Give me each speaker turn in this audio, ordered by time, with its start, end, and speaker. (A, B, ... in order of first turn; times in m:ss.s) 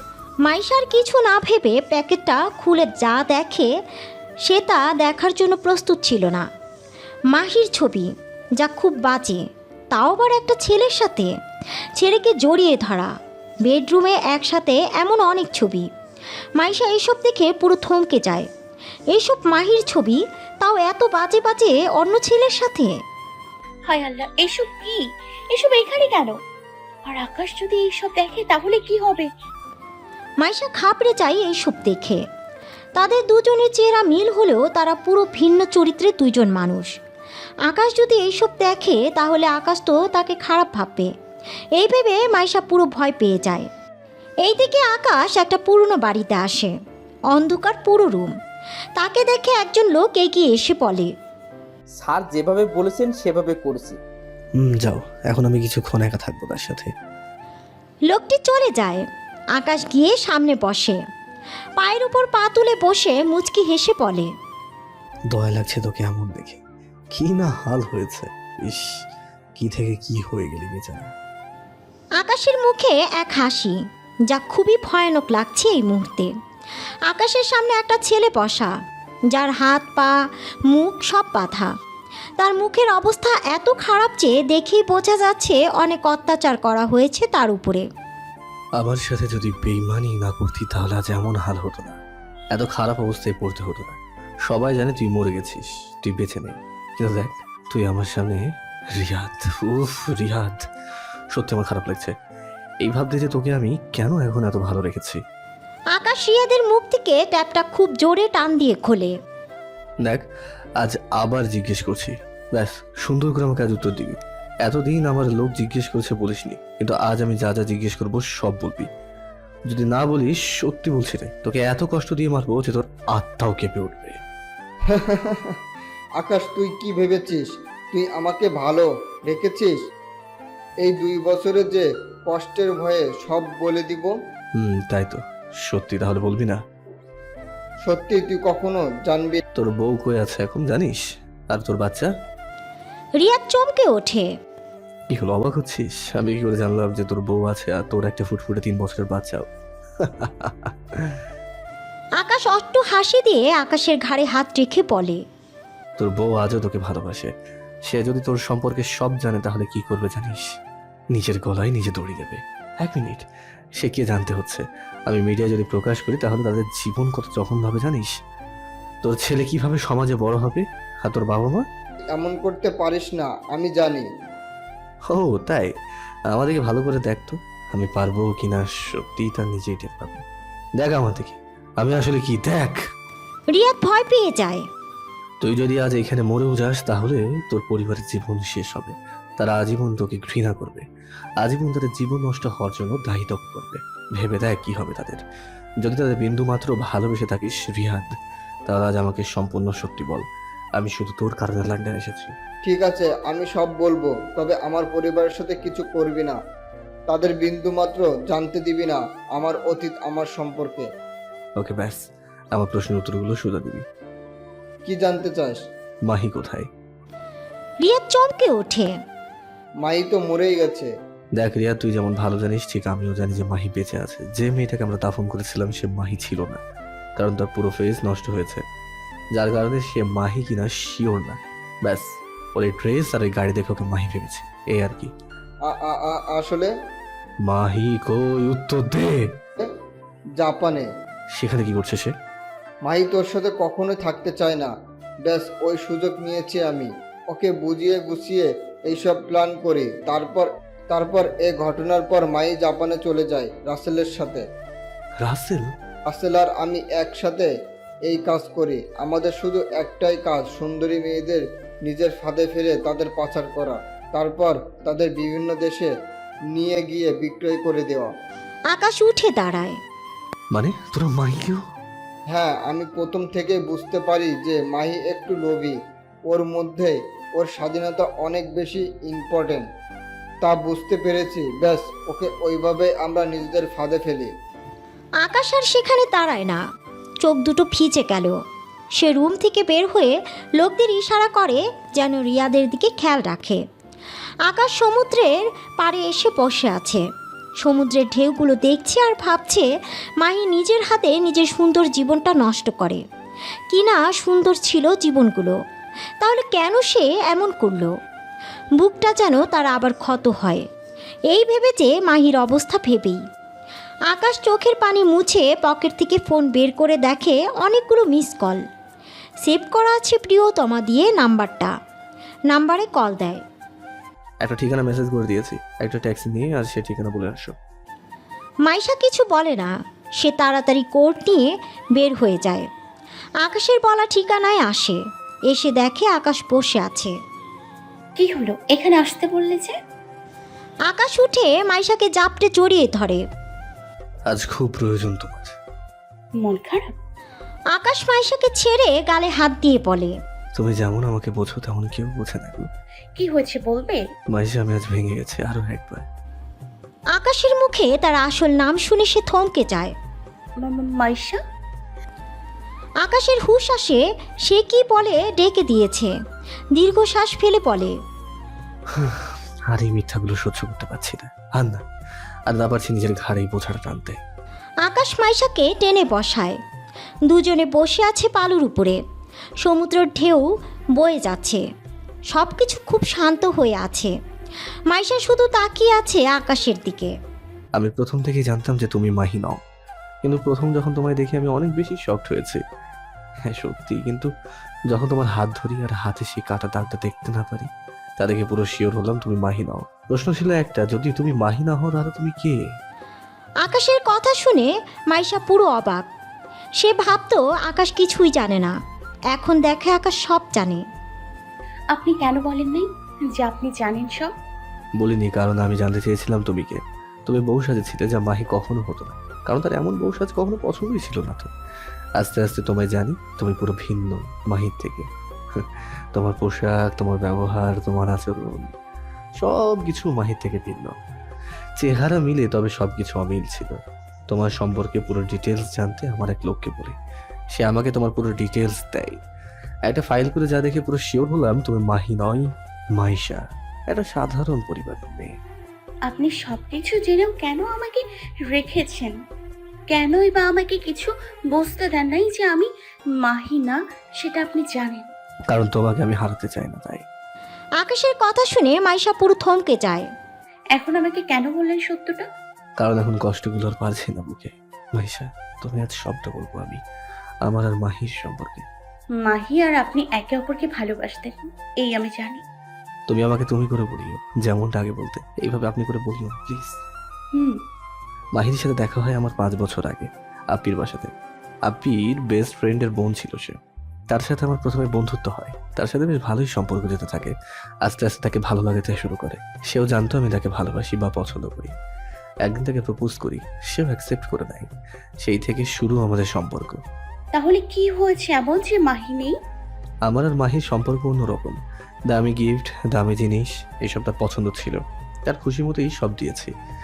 0:00.5-0:03.7 A
0:04.5-0:06.4 A
0:07.3-0:09.4 A
0:09.9-0:11.3 A
0:12.0-0:13.1 A
0:13.7-0:15.9 A
0:16.6-0:18.5 A
0:19.1-0:23.0 A
0:23.9-0:25.0 B
0:25.5-0:26.3 B
0:27.1-0:29.3 B
0:30.4-0:32.2 A
0:33.0-0:36.9 A
0:37.7-0:41.1 A
0:41.8-0:43.7 A
0:44.4-0:46.7 A
0:47.3-0:48.3 A
0:49.0-0:51.1 A
0:52.0-0:54.0 C
0:54.6-0:56.9 D
0:58.1-0:59.0 A
0:59.6-1:01.0 A
1:01.8-1:04.3 A
1:05.3-1:06.6 D
1:07.1-1:09.0 D
1:09.6-1:11.1 D
1:12.2-1:13.8 A
1:14.3-1:16.3 A
1:17.1-1:18.7 A
1:19.3-1:20.2 A
1:20.7-1:21.7 A
1:22.4-1:27.9 A
1:28.8-1:32.0 D
1:32.5-1:38.4 D
1:39.0-1:40.6 D
1:41.3-1:42.1 D
1:42.8-1:45.2 D
1:45.9-1:49.2 A
1:50.8-1:58.9 D
1:59.7-2:04.2 D
2:04.9-2:05.5 E
2:06.2-2:09.8 E
2:10.8-2:14.2 E
2:14.6-2:16.6 D
2:17.8-2:19.4 E
2:19.6-2:22.1 D
2:23.2-2:24.3 A
2:25.1-2:29.5 D
2:30.0-2:31.2 D
2:32.2-2:35.2 A
2:36.0-2:37.3 D
2:37.9-2:40.6 D
2:41.1-2:48.1 D
2:49.0-2:51.7 D
2:52.1-2:54.1 E
2:55.1-2:55.7 D
2:56.3-3:00.2 D
3:00.8-3:02.8 D
3:03.5-3:04.6 A
3:05.4-3:10.9 D
3:11.4-3:15.2 D
3:15.8-3:18.1 D
3:18.7-3:20.2 D
3:20.8-3:22.3 D
3:22.6-3:26.4 E
3:27.1-3:30.9 E
3:31.6-3:33.9 D
3:34.8-3:35.6 E
3:36.1-3:36.7 D
3:37.8-3:38.9 A
3:39.8-3:40.9 E
3:41.4-3:46.6 D
3:47.2-3:48.6 D
3:49.4-3:55.1 D
3:55.7-3:56.7 E
3:57.4-3:59.2 D
4:00.4-4:00.9 E
4:01.4-4:02.1 D
4:02.8-4:04.7 E
4:05.2-4:14.4 E
4:15.2-4:15.7 D
4:16.1-4:17.5 E
4:18.1-4:25.9 E
4:26.5-4:28.1 E
4:28.7-4:29.8 A
4:30.5-4:31.6 D
4:32.3-4:35.8 E
4:36.3-4:39.6 E
4:40.4-4:44.3 E
4:45.2-4:46.6 A
4:47.2-4:48.4 A
4:49.0-4:53.6 A
4:54.5-4:57.0 A
4:57.6-4:59.7 A
5:00.2-5:03.0 A
5:03.7-5:05.5 A
5:06.2-5:07.9 A
5:08.8-5:10.6 A
5:11.3-5:13.2 A
5:14.1-5:18.6 A
5:19.4-5:21.7 A
5:22.5-5:23.4 A
5:24.4-5:27.6 D
5:28.6-5:32.7 A
5:33.4-5:37.1 A
5:38.2-5:39.7 B
5:40.9-5:43.2 A
5:44.3-5:45.6 D
5:46.4-5:46.9 B
5:47.7-5:50.1 A
5:50.6-5:52.7 D
5:53.2-5:54.0 B
5:54.3-5:56.1 D
5:57.1-5:59.9 A
6:00.6-6:01.4 B
6:03.0-6:06.1 A
6:06.8-6:08.0 A
6:09.0-6:11.8 D
6:12.5-6:14.2 D
6:14.9-6:16.6 A
6:17.3-6:19.0 A
6:19.6-6:21.6 A
6:22.3-6:24.1 A
6:24.9-6:27.1 A
6:27.8-6:29.6 D
6:30.2-6:32.6 D
6:33.4-6:34.3 D
6:34.9-6:42.6 D
6:43.6-6:46.1 A
6:46.8-6:48.8 A
6:49.3-6:50.8 A
6:51.9-6:54.3 B
6:55.0-7:01.5 D
7:02.2-7:08.7 D
7:09.4-7:11.0 D
7:11.8-7:13.8 D
7:14.3-7:17.0 D
7:17.5-7:19.2 D
7:19.9-7:25.4 D
7:26.1-7:29.2 B
7:29.9-7:32.7 B
7:33.2-7:35.1 B
7:35.5-7:37.1 D
7:37.8-7:40.1 A
7:40.8-7:42.2 B
7:42.8-7:46.8 D
7:47.4-7:48.7 D
7:49.2-7:52.4 B
7:53.1-7:56.8 D
7:58.4-8:01.1 D
8:01.7-8:03.6 D
8:04.1-8:11.7 D
8:12.4-8:14.7 D
8:15.2-8:16.8 D
8:17.3-8:19.4 B
8:20.1-8:21.6 D
8:22.1-8:26.5 D